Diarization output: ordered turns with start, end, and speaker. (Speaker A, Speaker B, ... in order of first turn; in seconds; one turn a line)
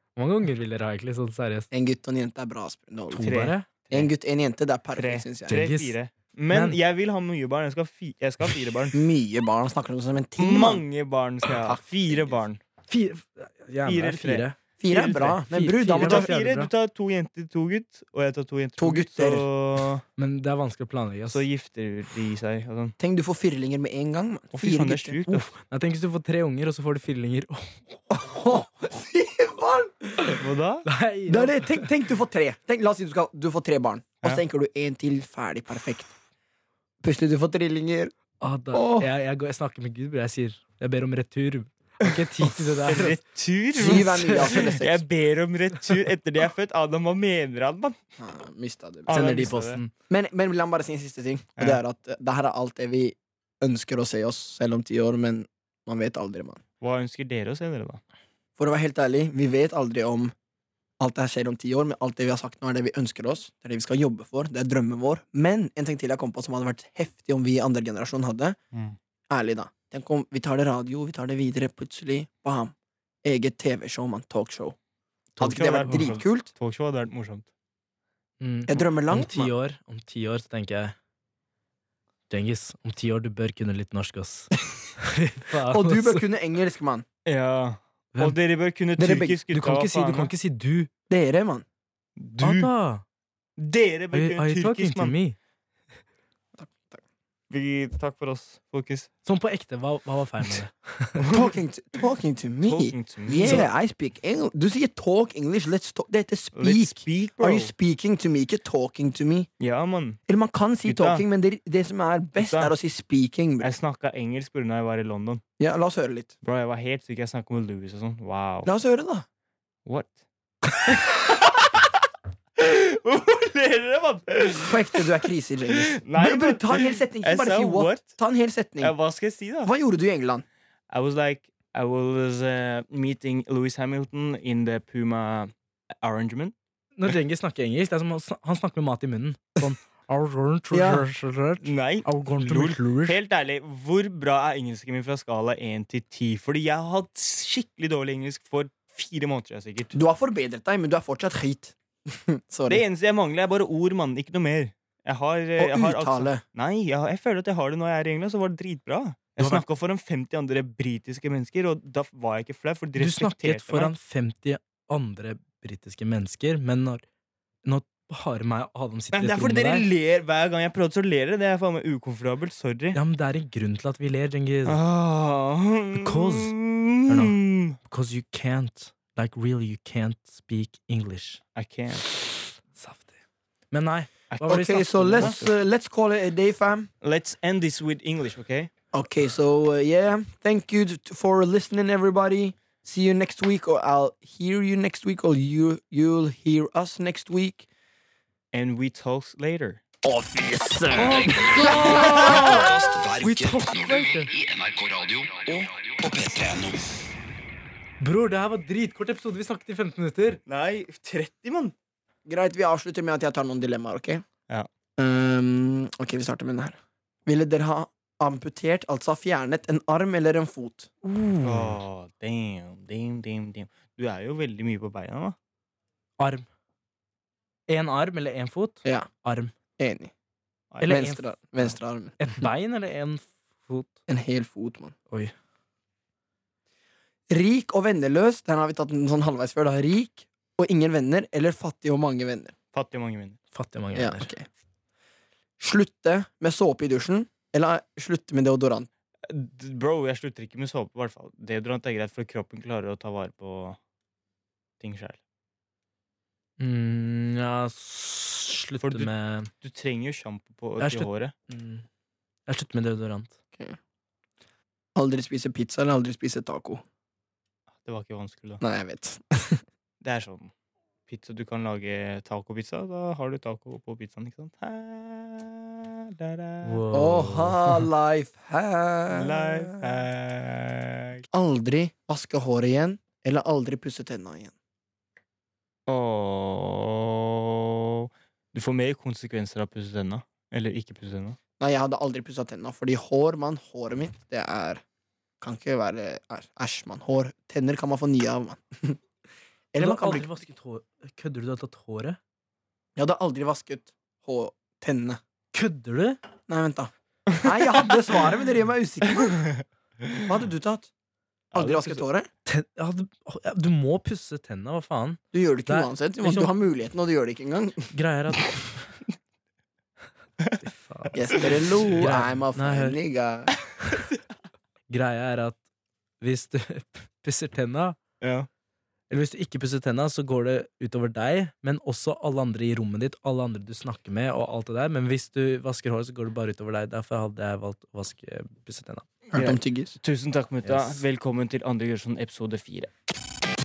Speaker A: 0.2-1.7
Speaker B: 1.7-3.3
Speaker A: 3.1-3.7
Speaker C: 3.2-4.1
Speaker B: 3.9-5.6
Speaker C: 5.0-9.0
Speaker A: 5.5-6.0
Speaker A: 6.5-6.8
Speaker B: 8.9-10.8
Speaker C: 10.4-12.6
Speaker B: 11.6-12.4
Speaker A: 12.9-14.6
Speaker C: 13.8-15.4
Speaker B: 14.8-16.3
Speaker A: 15.5-16.7
Speaker C: 16.0-20.0
Speaker B: 18.8-19.5
Speaker A: 20.2-21.4
Speaker C: 21.3-23.0
Speaker B: 23.0-25.4
Speaker C: 24.5-25.5
Speaker A: 25.3-28.3
Speaker B: 28.1-30.4
Speaker C: 30.4-30.9
Speaker A: 30.9-31.9
Speaker B: 31.3-36.1
Speaker B: 37.0-38.1
Speaker A: 38.4-43.2
Speaker B: 38.7-39.1
Speaker C: 42.0-48.0
Speaker B: 43.8-45.0
Speaker B: 48.2-49.5
Speaker C: 49.1-49.8
Speaker A: 49.1-49.9
Speaker B: 50.1-56.6
Speaker C: 56.8-58.0
Speaker B: 58.6-60.3
Speaker B: 61.0-68.6
Speaker B: 69.3-74.8
Speaker A: 75.4-76.2
Speaker B: 75.4-76.5
Speaker C: 75.4-77.5
Speaker A: 78.4-81.0
Speaker B: 78.7-79.5
Speaker A: 82.3-86.2
Speaker B: 85.6-87.0
Speaker C: 87.3-90.3
Speaker B: 89.0-89.4
Speaker A: 89.5-90.9
Speaker B: 91.1-91.7
Speaker C: 92.2-92.7
Speaker A: 92.4-93.0
Speaker C: 93.6-95.2
Speaker A: 94.1-95.4
Speaker B: 96.6-97.0
Speaker C: 97.5-99.1
Speaker A: 99.2-101.3
Speaker C: 101.2-101.5
Speaker B: 101.3-109.5
Speaker C: 102.6-103.7
Speaker A: 103.4-103.7
Speaker C: 106.6-107.7
Speaker C: 109.6-110.2
Speaker B: 110.3-113.7
Speaker C: 110.8-111.2
Speaker C: 112.4-112.7
Speaker C: 113.6-115.4
Speaker B: 115.6-116.3
Speaker C: 116.4-118.7
Speaker B: 118.7-119.2
Speaker C: 119.9-120.2
Speaker C: 120.8-121.9
Speaker C: 122.6-125.1
Speaker B: 124.7-128.9
Speaker C: 125.8-128.2
Speaker C: 128.8-129.7
Speaker B: 129.7-130.5
Speaker C: 130.9-136.6
Speaker A: 137.0-143.2
Speaker B: 140.7-141.1
Speaker C: 141.6-150.0
Speaker B: 149.9-152.8
Speaker C: 152.7-163.9
Speaker B: 155.6-156.4
Speaker A: 159.4-159.6
Speaker A: 163.0-167.0
Speaker A: 167.6-169.9
Speaker C: 169.1-173.0
Speaker A: 172.9-174.8
Speaker C: 174.7-177.8
Speaker A: 175.9-176.6
Speaker A: 177.1-181.4
Speaker C: 181.6-182.1
Speaker A: 182.7-183.1
Speaker A: 183.7-185.5
Speaker C: 184.3-185.4
Speaker B: 184.4-186.9
Speaker C: 187.0-188.7
Speaker B: 188.9-197.7
Speaker C: 198.5-199.8
Speaker D: 200.1-207.0
Speaker B: 200.1-202.6
Speaker A: 201.0-204.3
Speaker C: 201.7-202.4
Speaker A: 208.0-210.4
Speaker C: 210.5-211.7
Speaker B: 212.3-214.2
Speaker B: 215.0-220.9
Speaker A: 221.0-221.8
Speaker C: 221.4-225.4
Speaker A: 226.2-226.5
Speaker A: 227.7-229.5
Speaker B: 229.8-230.1
Speaker C: 230.7-231.0
Speaker A: 230.8-234.0
Speaker B: 230.8-232.2
Speaker B: 234.1-234.9
Speaker B: 237.3-242.5
Speaker C: 242.7-243.4
Speaker A: 243.5-244.3
Speaker B: 243.9-244.5
Speaker B: 245.6-248.9
Speaker C: 249.3-253.8
Speaker C: 254.8-255.2
Speaker A: 256.6-259.5
Speaker C: 258.8-261.3
Speaker A: 260.8-261.9
Speaker A: 262.5-263.4
Speaker B: 265.0-266.8
Speaker C: 267.8-268.6
Speaker B: 268.6-269.6
Speaker C: 270.0-270.5
Speaker C: 271.1-276.8
Speaker A: 276.6-277.9
Speaker B: 276.9-280.0
Speaker C: 279.1-281.2
Speaker B: 281.3-284.5
Speaker C: 285.9-291.4
Speaker B: 291.6-294.8
Speaker B: 295.4-299.0
Speaker B: 299.7-300.3
Speaker A: 299.8-302.2
Speaker B: 303.0-305.2
Speaker A: 305.5-306.2
Speaker B: 306.5-309.5
Speaker C: 307.3-308.0
Speaker C: 309.2-310.2
Speaker B: 310.2-310.9
Speaker C: 311.5-312.0
Speaker B: 311.5-312.3
Speaker A: 312.5-316.5
Speaker B: 315.3-317.9
Speaker A: 317.9-318.8
Speaker A: 320.6-323.0
Speaker B: 321.1-323.5
Speaker A: 324.9-325.6
Speaker A: 326.2-328.0
Speaker C: 328.2-328.5
Speaker A: 329.1-339.1
Speaker B: 339.3-340.0
Speaker C: 339.3-342.9
Speaker A: 340.6-341.0